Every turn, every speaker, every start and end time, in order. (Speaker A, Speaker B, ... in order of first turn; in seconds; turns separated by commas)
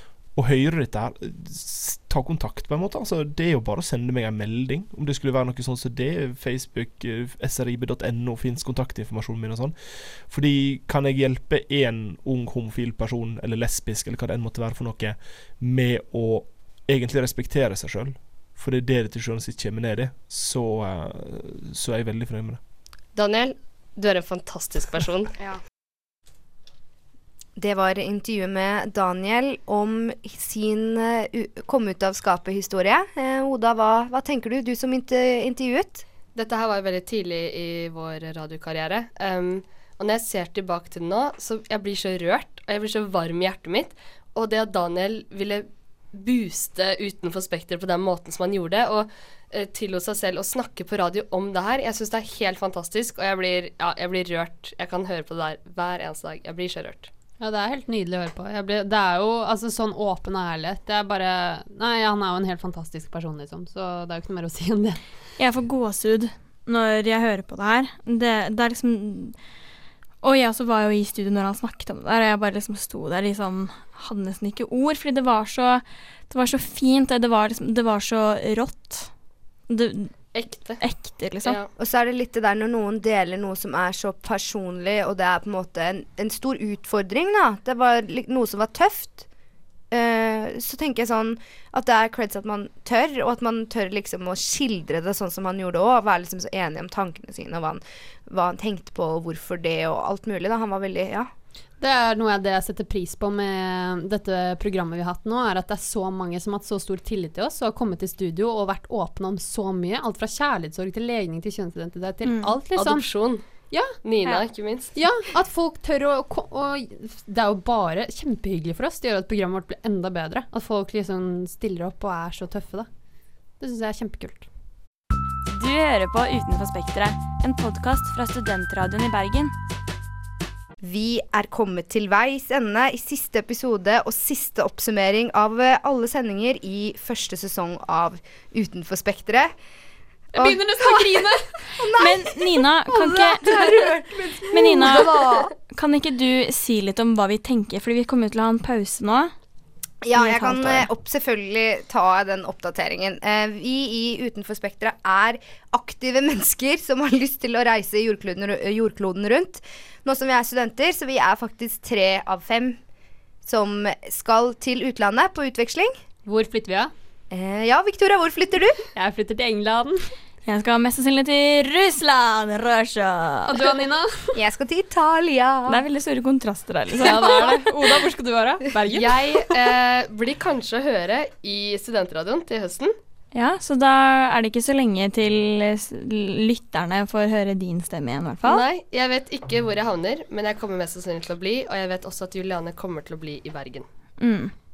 Speaker A: 0.3-22.6, Speaker B: 23.1-25.3, Speaker C: 27.6-36.0, Speaker D: 36.4-57.1, Speaker E: 57.4-65.0, Speaker F: 65.4-69.3, Speaker F: 70.2-79.1, Speaker F: 79.7-80.1, Speaker D: 80.3-80.8, Speaker F: 80.8-81.6, Speaker D: 81.4-81.7, Speaker C: 81.8-89.3, Speaker C: 89.9-101.3, Speaker E: 101.8-113.1, Speaker F: 112.2-112.6, Speaker D: 112.8-113.5, Speaker E: 113.7-122.9, Speaker D: 114.0-114.9, Speaker E: 123.6-124.5, Speaker G: 125.5-129.5, Speaker C: 130.8-139.5, Speaker C: 140.3-145.5, Speaker E: 140.4-141.4, Speaker F: 141.9-143.9, Speaker F: 144.5-149.3, Speaker C: 150.0-162.8, Speaker F: 150.2-150.9, Speaker C: 163.4-165.9, Speaker E: 166.3-166.9, Speaker C: 167.3-168.8, Speaker E: 168.9-170.1, Speaker F: 170.5-173.7, Speaker E: 173.5-174.4, Speaker C: 174.3-175.8, Speaker F: 175.7-178.0, Speaker E: 177.0-179.6, Speaker D: 178.9-182.9, Speaker F: 183.3-188.7, Speaker D: 188.4-193.9, Speaker F: 194.2-194.5